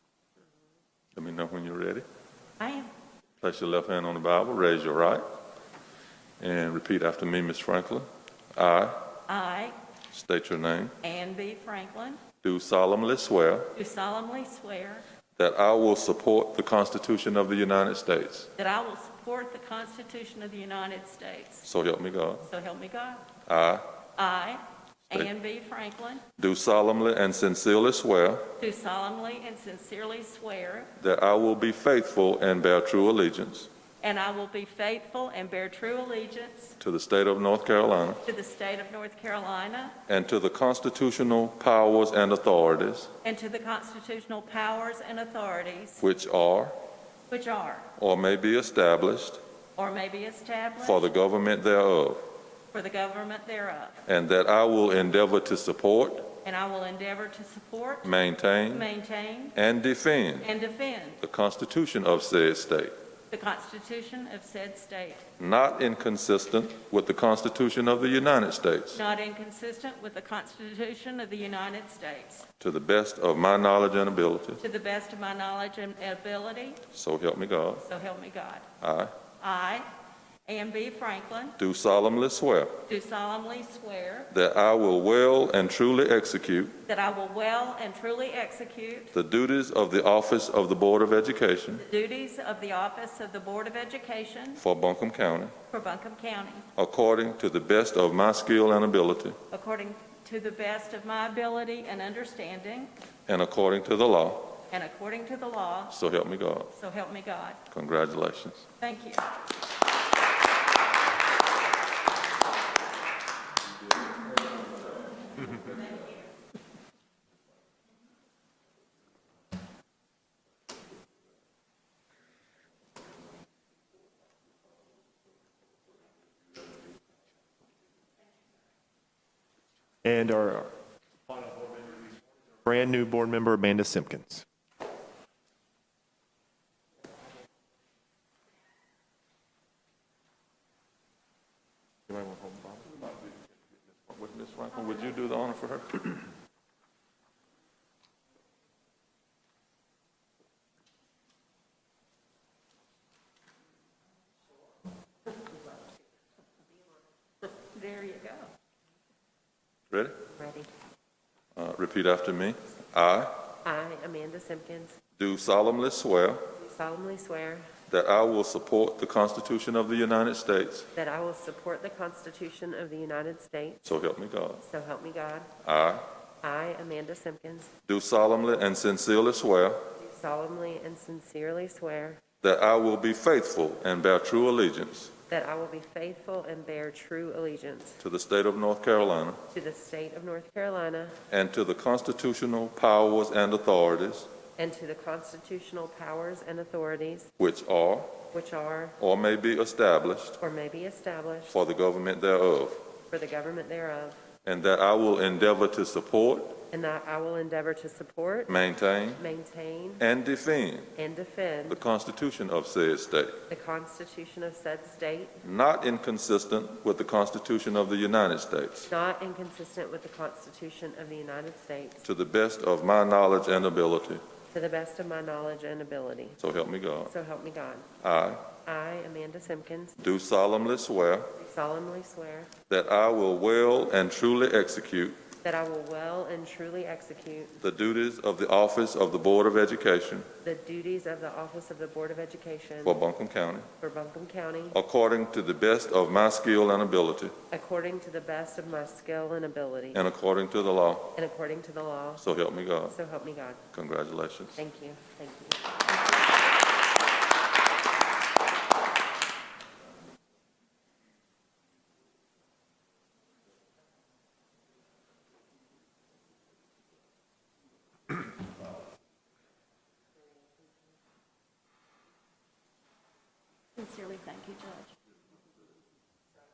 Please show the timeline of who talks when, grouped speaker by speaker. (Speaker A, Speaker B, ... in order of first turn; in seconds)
Speaker A: 1.1-2.0, 3.4-5.2, 6.4-9.0, 10.1-10.9, 12.4-13.7, 15.4-18.5, 21.6-22.5, 23.4-23.9, 26.4-28.5, 31.0-33.7, 36.8-38.2, 40.1-43.1, 46.0-46.8, 48.0-49.4, 50.8-52.2, 54.0-56.3, 58.0-58.9, 59.5-60.5, 61.2-62.9, 65.4-69.0, 72.6-74.6, 76.9-77.8, 78.8-79.2, 81.6-82.8, 84.3-86.8, 89.1-91.8, 94.6-95.5, 96.8-99.4, 103.3-104.6, 105.9-106.7, 107.7-108.7, 142.1-146.3, 159.9-160.2, 161.5-163.4, 165.2-166.4, 167.9-170.9, 173.8-174.6, 175.6-176.0, 177.8-179.8, 182.4-185.1, 188.0-189.4, 191.3-194.3, 197.4-198.2, 199.0-200.4, 201.5-202.8, 204.4-206.6, 208.5-209.2, 210.0-210.9, 211.7-213.4, 215.4-218.9, 222.0-224.2, 226.4-227.1, 228.0-228.5, 230.0-231.3, 232.7-235.2, 237.6-240.3, 242.8-243.7, 244.7-247.3, 249.9-251.1, 252.2-253.0, 253.7-254.6
Speaker B: 2.6-2.9, 9.3-9.8, 11.0-12.2, 13.7-15.0, 18.6-21.6, 22.4-23.3, 24.1-26.2, 28.6-30.9, 34.0-36.8, 38.2-40.0, 43.2-46.0, 47.3-47.9, 49.8-51.0, 52.7-54.0, 56.4-58.1, 58.7-59.5, 60.4-61.2, 63.3-65.2, 68.9-72.4, 74.6-76.8, 77.8-78.7, 79.4-79.9, 80.5-81.5, 82.8-84.3, 86.8-89.1, 91.8-94.6, 95.7-96.7, 99.5-102.9, 104.7-105.9, 106.7-107.6, 108.8-109.2, 115.4-116.2, 157.7-158.5, 273.8-274.9
Speaker C: 130.0-130.7, 131.3-132.0, 132.6-134.4
Speaker D: 160.3-160.7, 163.6-165.0, 166.5-167.7, 170.9-173.8, 174.6-175.5, 176.4-177.7, 179.9-182.2, 185.3-188.0, 189.5-191.2, 194.6-197.3, 198.3-199.0, 200.4-201.6, 203.1-204.2, 206.7-208.6, 209.1-210.0, 210.9-211.8, 213.5-215.4, 218.9-222.0, 224.5-226.4, 227.0-227.9, 228.6-230.0, 231.3-232.5, 235.4-237.6, 240.4-243.0, 243.8-244.8, 247.5-250.0, 251.1-252.2, 252.9-253.6, 254.6-255.6